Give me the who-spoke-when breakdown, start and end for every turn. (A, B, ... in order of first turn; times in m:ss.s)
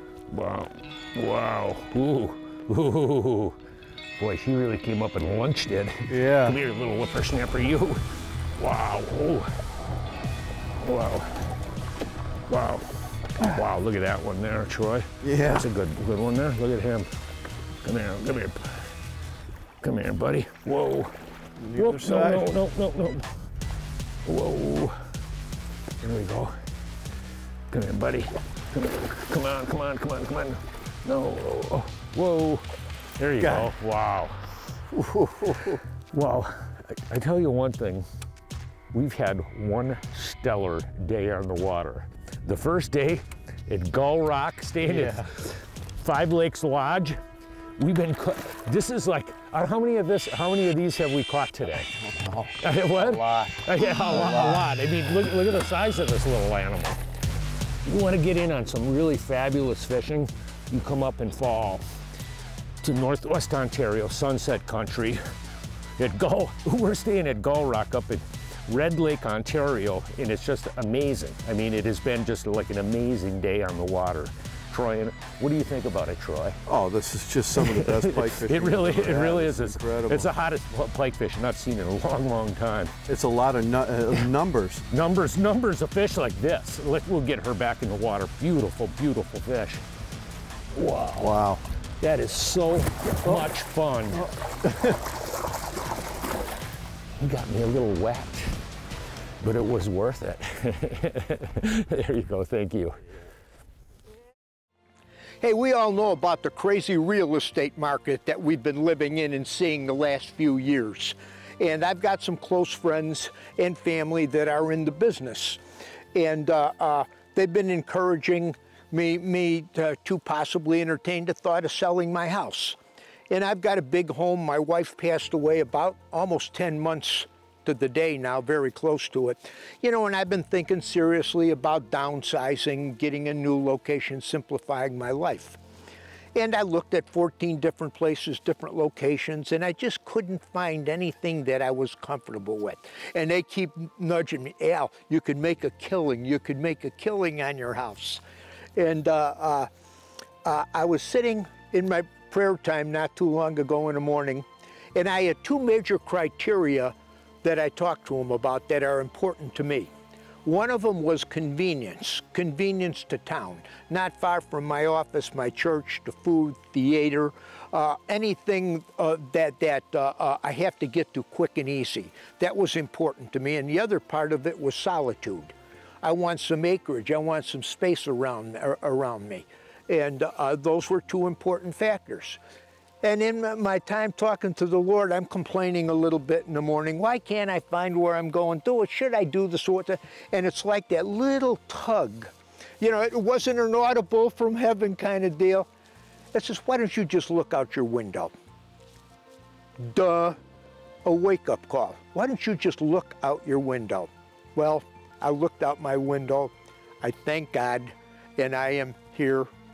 0:00.3-0:03.6 A
0:04.2-0:08.0 A
0:06.1-0:06.6 B
0:08.6-0:09.5 A
0:10.8-0:11.3 A
0:12.5-0:17.1 A
0:15.2-0:15.7 B
0:17.8-0:18.9 A
0:19.8-0:21.1 A
0:21.6-0:22.5 B
0:21.7-0:23.3 A
0:24.2-0:25.0 A
0:26.0-0:26.6 A
0:27.7-0:32.7 A
0:33.2-0:34.5 A
0:33.4-0:33.7 B
0:34.9-0:35.8 B
0:36.1-0:38.0 A
0:38.9-0:47.2 A
0:44.8-0:45.3 B
0:47.8-0:51.9 A
0:51.9-0:54.7 B
0:52.6-0:57.0 A
0:57.8-1:01.8 A
1:02.8-1:05.2 A
1:06.0-1:16.6 A
1:16.6-1:20.3 B
1:17.6-1:22.9 A
1:23.1-1:24.8 B
1:24.9-1:29.8 A
1:30.7-1:31.3 A
1:31.2-1:31.6 B
1:32.0-1:34.3 A
1:34.1-1:35.0 B
1:37.2-1:38.6 A
1:39.4-1:43.0 A
1:45.4-1:55.6 C
1:56.1-2:02.8 C
2:03.3-2:15.6 C
2:16.3-2:28.2 C
2:28.8-2:29.7 C
2:30.4-2:39.9 C
2:40.4-3:02.4 C
3:03.0-3:15.7 C
3:16.3-3:18.3 C
3:19.8-3:20.4 C
3:21.0-3:29.5 C